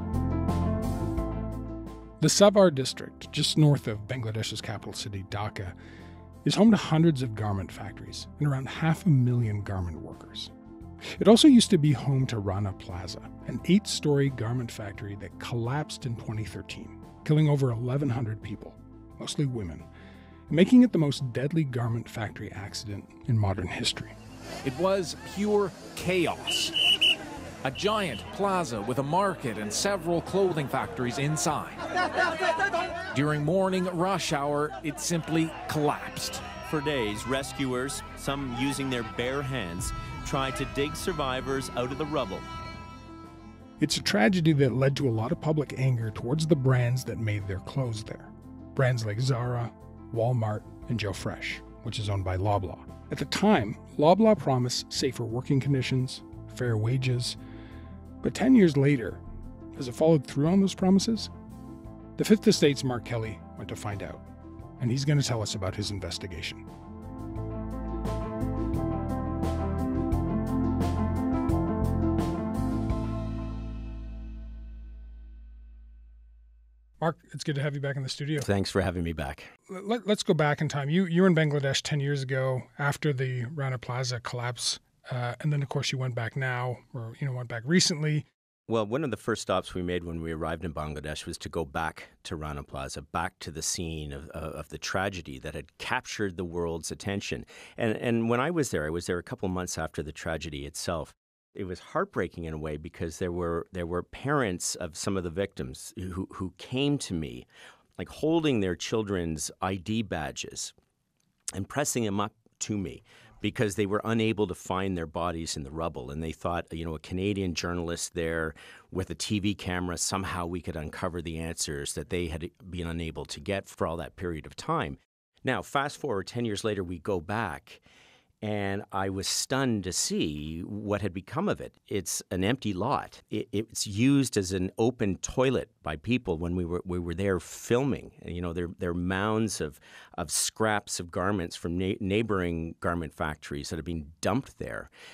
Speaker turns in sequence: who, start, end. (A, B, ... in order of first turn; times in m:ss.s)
0:02.2-0:05.7 A
0:06.4-0:10.5 A
0:11.2-0:19.9 A
0:20.5-0:24.2 A
0:24.6-0:26.7 B
0:27.6-0:31.8 B
0:33.1-0:36.6 B
0:36.6-0:42.5 C
0:43.8-0:57.4 A
0:58.2-0:59.2 A
0:59.7-1:01.3 A
1:02.2-1:04.2 A
1:04.8-1:06.6 A
1:17.0-1:18.5 A
1:18.4-1:19.5 C
1:19.7-1:28.2 A
1:28.7-1:47.5 C
1:48.0-1:50.7 C
1:51.5-2:07.8 C
2:08.4-2:24.9 C